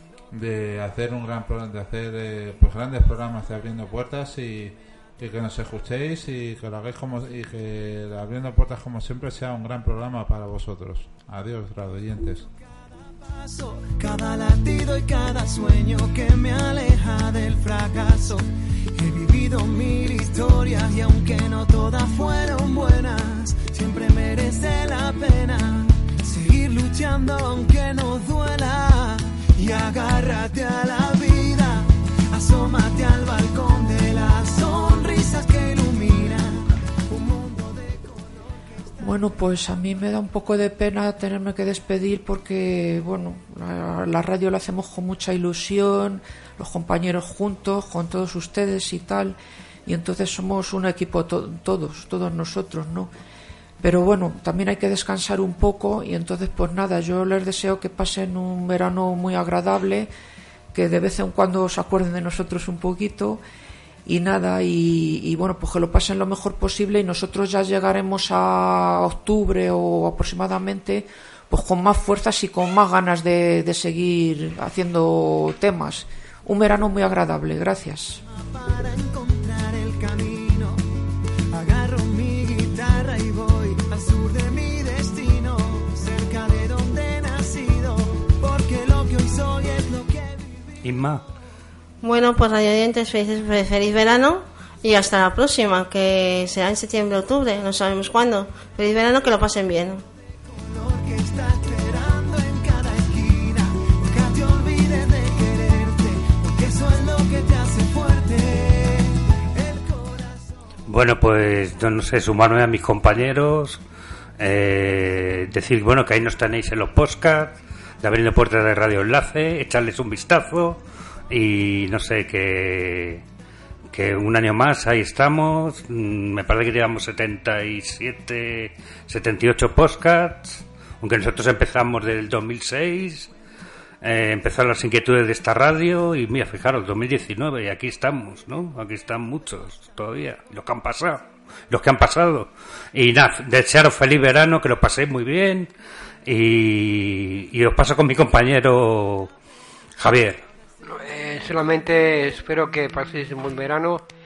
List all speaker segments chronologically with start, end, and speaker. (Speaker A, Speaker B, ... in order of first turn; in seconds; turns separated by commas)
Speaker A: 0.3-12.5, Speaker B: 13.1-38.6, Speaker C: 39.0-53.1, Speaker C: 53.8-60.1, Speaker C: 60.7-63.4, Speaker C: 64.0-78.2, Speaker B: 78.3-80.8, Speaker B: 81.5-90.7, Speaker D: 90.8-91.2, Speaker E: 92.0-100.0, Speaker B: 100.5-110.5, Speaker D: 110.8-113.8, Speaker D: 114.4-123.2, Speaker D: 123.9-133.3, Speaker D: 134.0-145.7, Speaker D: 146.2-149.3, Speaker D: 150.0-150.4, Speaker F: 150.8-154.0